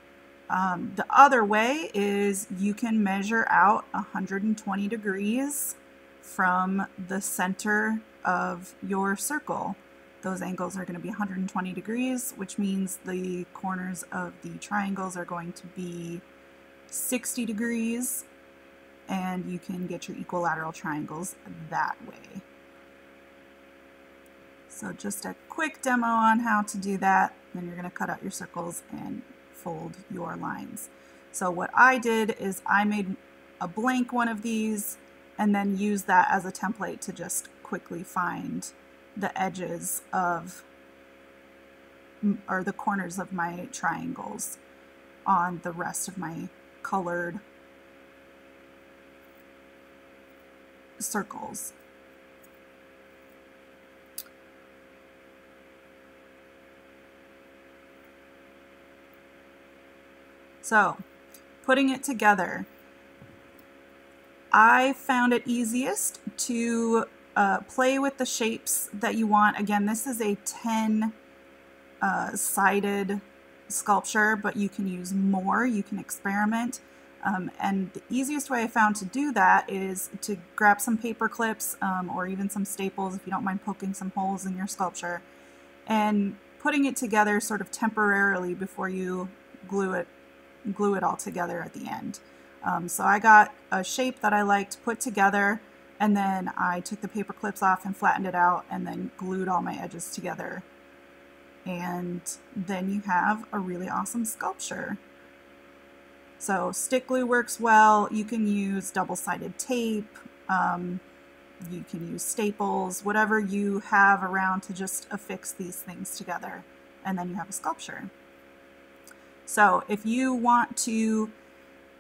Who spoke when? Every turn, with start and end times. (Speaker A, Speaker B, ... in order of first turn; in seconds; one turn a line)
Speaker A: 0.5-16.2
Speaker A: 16.9-18.3
Speaker A: 19.1-22.4
Speaker A: 24.7-40.7
Speaker A: 42.2-44.6
Speaker A: 45.3-47.4
Speaker A: 51.0-51.8
Speaker A: 60.6-61.0
Speaker A: 61.6-62.7
Speaker A: 64.5-71.2
Speaker A: 72.0-85.2
Speaker A: 85.9-90.1
Speaker A: 90.7-100.7
Speaker A: 101.7-105.0
Speaker A: 106.4-111.0
Speaker A: 111.6-118.1
Speaker A: 119.5-121.3